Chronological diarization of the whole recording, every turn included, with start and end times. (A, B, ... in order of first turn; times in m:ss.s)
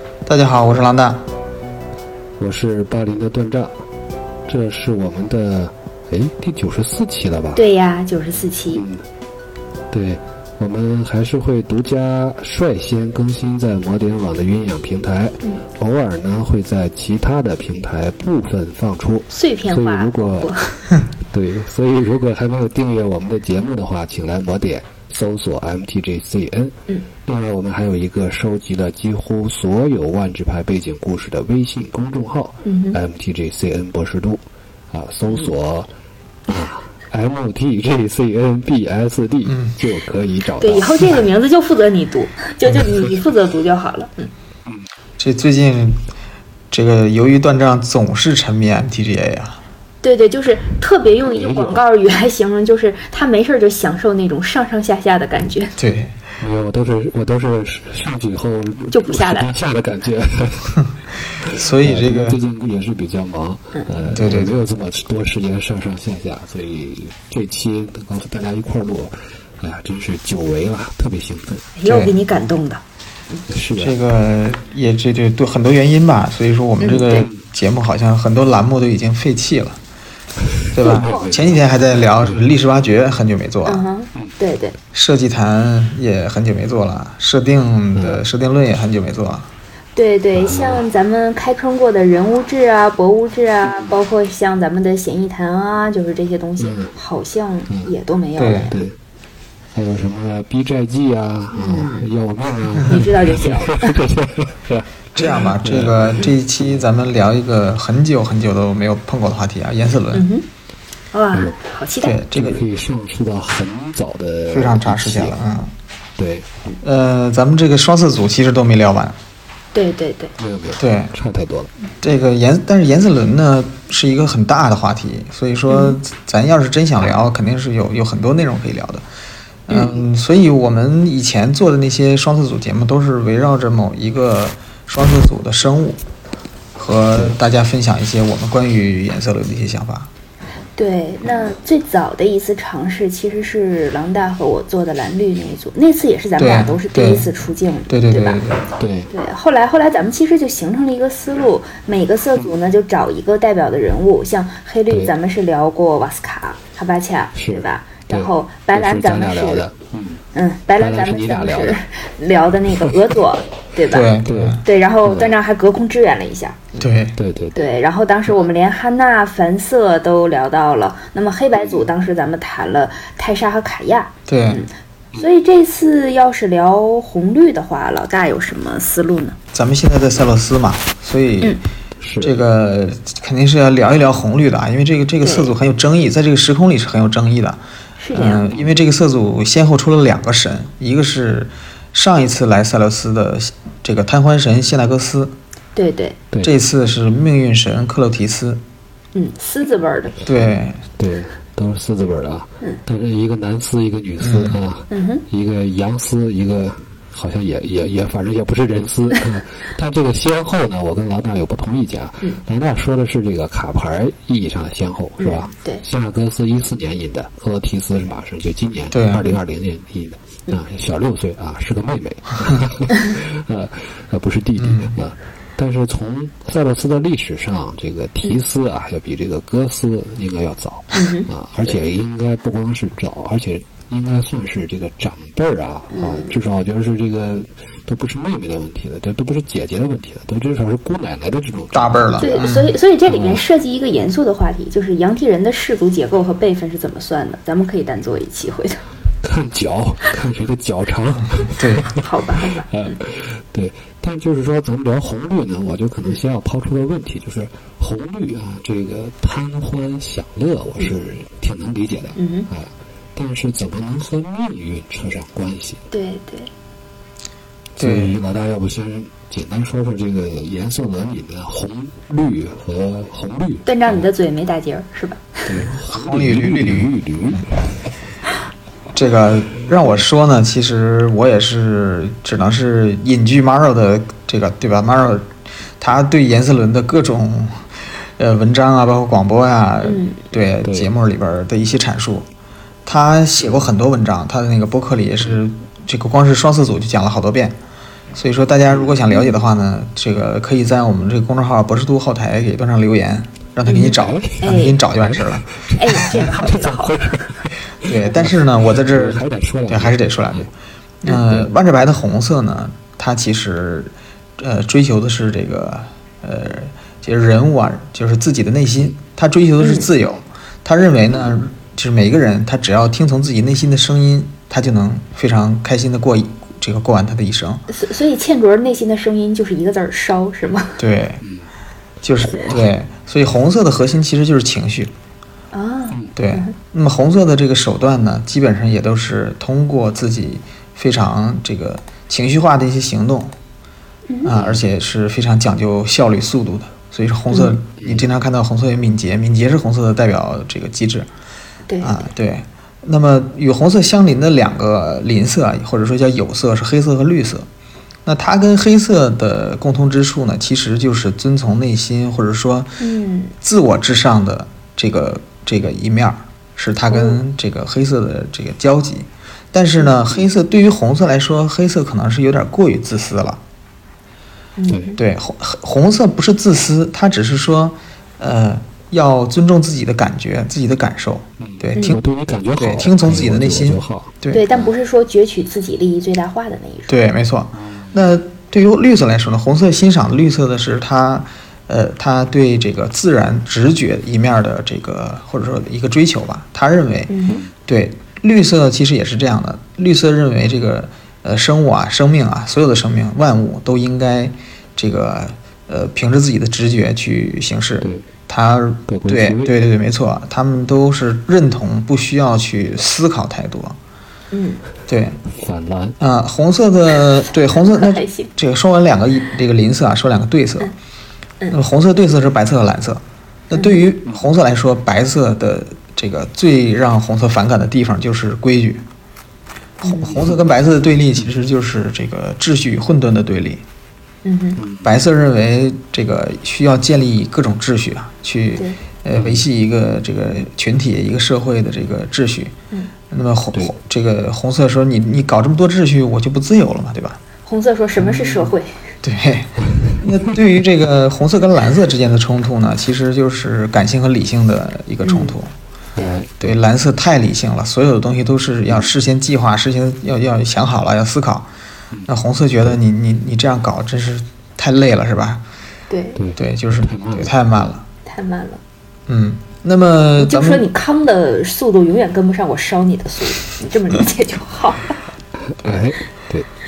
0:00.2-0:01.2 A
0:02.4-0:03.7 B
0:04.5-0:07.6 B
0:07.5-0:08.8 C
0:08.7-0:09.0 B
0:09.9-0:20.5 B
0:19.3-0:20.9 C
0:21.3-0:26.7 B
0:27.2-0:35.9 B
0:32.6-0:33.0 C
0:36.5-0:41.2 B
0:39.4-0:39.7 A
0:40.6-0:44.3 C
0:45.2-0:46.0 A
0:46.7-0:49.6 A
0:50.0-0:55.7 C
0:51.2-0:51.8 B
0:55.8-0:56.1 A
0:56.4-1:11.6 B
0:58.9-0:59.5 C
1:01.5-1:02.4 A
1:04.1-1:04.5 A
1:11.7-1:13.4 C
1:11.8-1:12.2 A
1:13.5-1:14.0 B
1:13.8-1:19.8 A
1:16.8-1:17.2 C
1:20.7-1:21.7 B
1:20.7-1:23.8 A
1:20.8-1:21.3 C
1:23.6-1:24.8 C
1:24.9-1:29.5 A
1:27.9-1:28.2 B
1:29.9-1:38.8 C
1:30.3-1:30.8 B
1:36.6-1:36.9 B
1:38.4-1:38.7 A
1:38.7-1:39.0 B
1:39.7-1:46.8 B
1:41.5-1:42.1 C
1:42.8-1:44.0 C
1:45.1-1:50.3 A
1:50.1-1:50.4 C
1:51.1-1:52.2 C
1:51.3-1:51.6 B
1:52.0-1:52.6 A
1:52.3-1:55.4 B
1:54.5-1:55.7 A
1:56.2-1:56.5 B
1:56.8-1:59.1 A
1:59.7-2:00.3 C
2:00.4-2:01.7 B
2:00.8-2:01.1 A
2:02.0-2:09.0 A
2:05.7-2:06.0 C
2:09.7-2:16.0 A
2:09.7-2:10.0 C
2:16.8-2:20.1 A
2:20.8-2:28.4 C
2:26.4-2:27.3 A
2:27.9-2:28.7 A
2:28.8-2:29.1 B
2:29.1-2:39.6 C
2:37.4-2:40.2 B
2:40.3-2:44.1 C
2:40.8-2:41.8 B
2:43.9-2:44.6 A
2:44.2-2:45.3 B
2:44.6-2:46.6 C
2:46.8-2:47.2 A
2:47.2-2:47.6 B
2:47.5-2:59.4 C
2:54.3-2:54.6 A
2:59.5-3:01.6 A
3:02.0-3:02.4 B
3:02.2-3:07.6 A
3:05.2-3:05.5 C
3:08.0-3:08.5 C
3:08.1-3:15.3 A
3:15.8-3:16.2 C
3:16.4-3:18.6 A
3:19.1-3:20.2 C
3:20.2-3:20.8 A
3:20.3-4:02.4 B
3:24.2-3:24.6 A
3:24.9-3:25.2 C
3:35.2-3:35.8 C
3:38.9-3:39.4 A
3:44.6-3:45.0 A
3:50.9-3:51.3 C
3:55.9-3:56.3 C
4:01.7-4:02.7 A
4:02.2-4:08.8 C
4:03.1-4:03.5 B
4:09.2-4:12.0 B
4:11.6-4:11.9 A
4:12.0-4:13.0 C
4:12.7-4:25.8 B
4:22.2-4:22.5 C
4:25.9-4:26.5 C
4:27.8-4:34.0 B
4:27.8-4:28.2 A
4:33.6-4:35.5 C
4:35.5-4:37.7 B
4:35.9-4:36.9 A
4:38.9-4:45.3 A
4:45.8-4:52.2 A
4:49.8-4:50.2 C
4:50.6-4:50.9 B
4:52.8-4:57.6 A
4:58.1-5:05.4 A
5:03.6-5:04.8 C
5:03.9-5:10.5 B
5:05.7-5:07.3 C
5:07.8-5:10.5 A
5:11.0-5:27.6 A
5:19.6-5:19.9 C
5:27.7-5:30.8 C
5:30.8-5:31.2 A
5:31.2-5:31.5 B
5:32.0-5:34.9 A
5:32.2-5:32.7 B
5:35.5-5:36.5 C
5:35.9-5:36.2 B
5:36.1-5:43.3 A
5:44.1-5:44.4 C
5:44.2-5:51.1 A
5:47.8-5:48.1 B
5:51.7-5:52.1 C
5:51.8-5:57.4 A
5:58.0-6:02.7 A
6:02.8-6:03.3 C
6:03.4-6:13.4 A
6:06.9-6:07.2 C
6:14.6-6:15.0 C
6:14.7-6:15.0 B
6:15.0-6:22.0 A
6:21.4-6:24.7 B
6:21.7-6:22.0 C
6:22.6-6:24.5 A
6:24.3-6:27.0 C
6:26.9-6:53.8 A
6:27.6-6:28.1 B
6:37.1-6:37.4 C
6:47.8-6:48.0 B
6:48.9-6:49.5 B
6:54.3-6:54.6 C
6:54.9-6:55.2 A
6:55.3-6:56.0 B
6:56.0-7:00.7 A
6:57.5-6:58.3 C
7:01.5-7:08.8 A
7:03.5-7:03.8 C
7:09.8-7:10.2 C
7:09.8-7:13.6 A
7:10.1-7:10.4 B
7:14.2-7:14.6 C
7:14.6-7:15.0 B
7:14.8-7:22.5 A
7:19.1-7:19.4 B
7:23.1-7:27.2 A
7:27.4-7:28.7 C
7:29.0-7:35.5 A
7:35.0-7:35.4 C
7:36.0-7:36.4 B
7:36.4-7:41.5 A
7:42.1-7:45.4 A
7:45.9-7:46.2 C
7:46.2-7:47.4 B
7:46.4-7:47.8 A
7:48.1-7:48.6 C
7:49.1-7:50.6 A
7:50.2-7:55.0 C
7:55.5-7:56.5 B